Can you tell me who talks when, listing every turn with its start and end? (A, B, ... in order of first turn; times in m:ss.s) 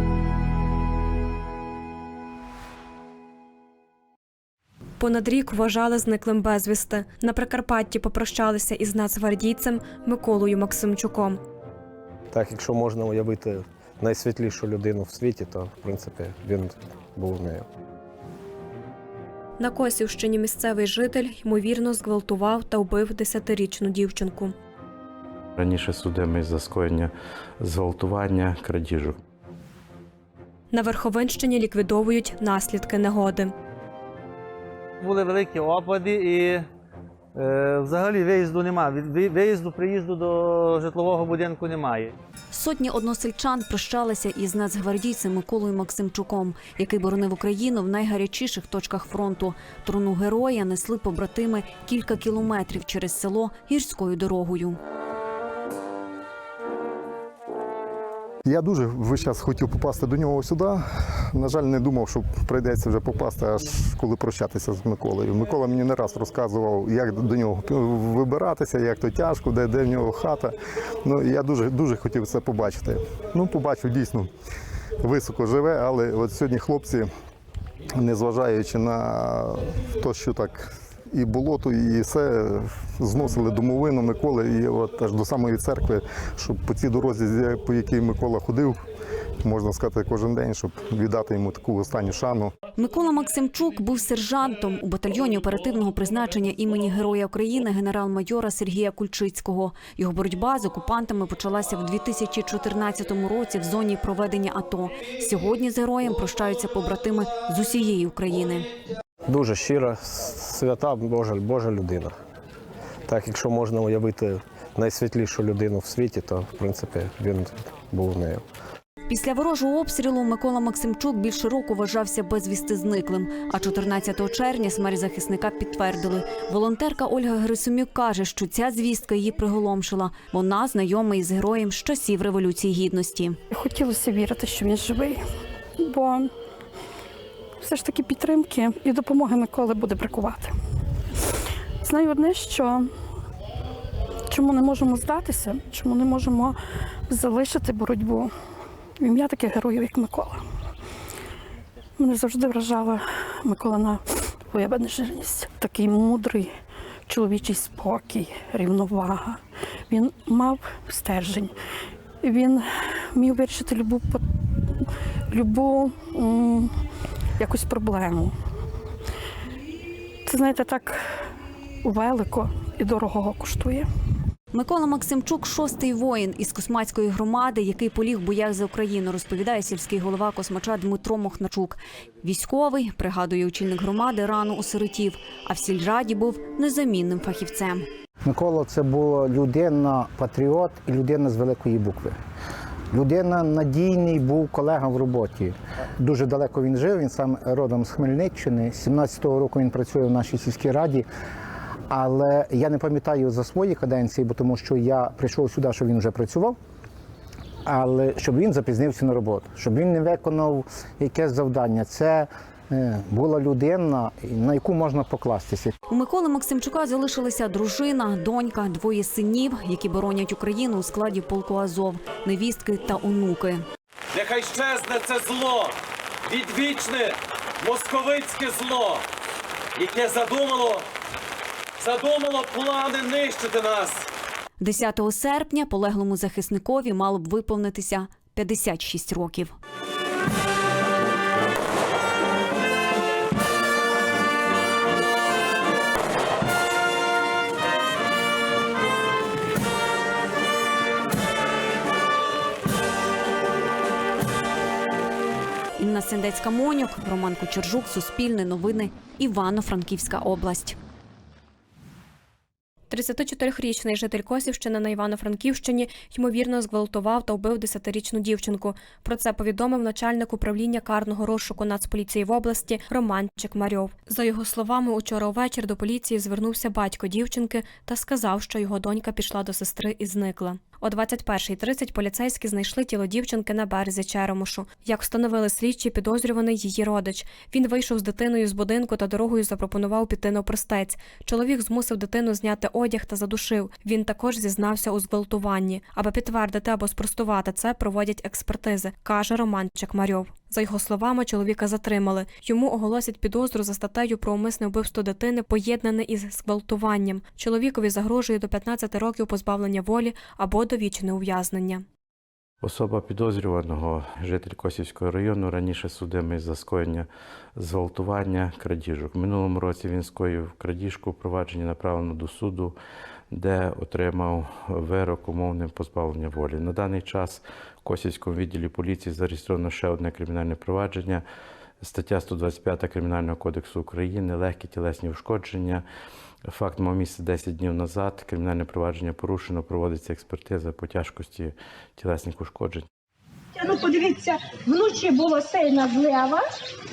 0:05.0-0:11.4 A
0:12.3-0:17.6 B
0:19.6-0:24.5 A
0:25.6-0:29.2 C
0:30.7-0:33.5 A
0:35.0-0:36.7 D
0:37.3-0:42.1 D
0:42.5-0:54.8 E
0:58.4-1:00.8 F
1:01.3-1:14.3 F
1:15.0-1:17.1 F
1:18.0-1:28.8 F
1:29.4-1:32.5 F
1:32.8-1:48.7 E
1:49.2-1:52.2 B
1:53.1-1:58.4 B
1:59.1-2:13.4 E
2:13.5-2:15.2 G
2:15.8-2:16.3 G
2:17.6-2:20.6 G
2:21.8-2:22.9 G
2:24.3-2:28.3 G
2:29.0-2:30.4 G
2:32.0-2:36.5 G
2:37.1-2:41.6 G
2:42.2-2:44.3 G
2:45.3-2:46.7 G
2:47.4-2:48.3 G
2:50.2-2:51.1 G
2:51.8-2:53.9 G
2:54.5-3:07.8 E
3:08.2-3:12.1 H
3:12.9-3:21.1 H
3:21.9-3:26.6 H
3:27.7-3:35.7 H
3:35.9-3:43.6 E
3:44.2-3:45.7 I
3:46.3-3:49.0 I
3:49.8-3:50.8 I
3:51.8-3:54.0 I
3:54.6-3:59.5 E
4:15.8-4:20.8 E
4:22.9-5:11.8 A
5:12.6-5:22.8 C
5:23.3-5:31.2 C
5:31.8-5:35.8 C
5:36.5-5:42.9 C
5:43.5-5:46.6 J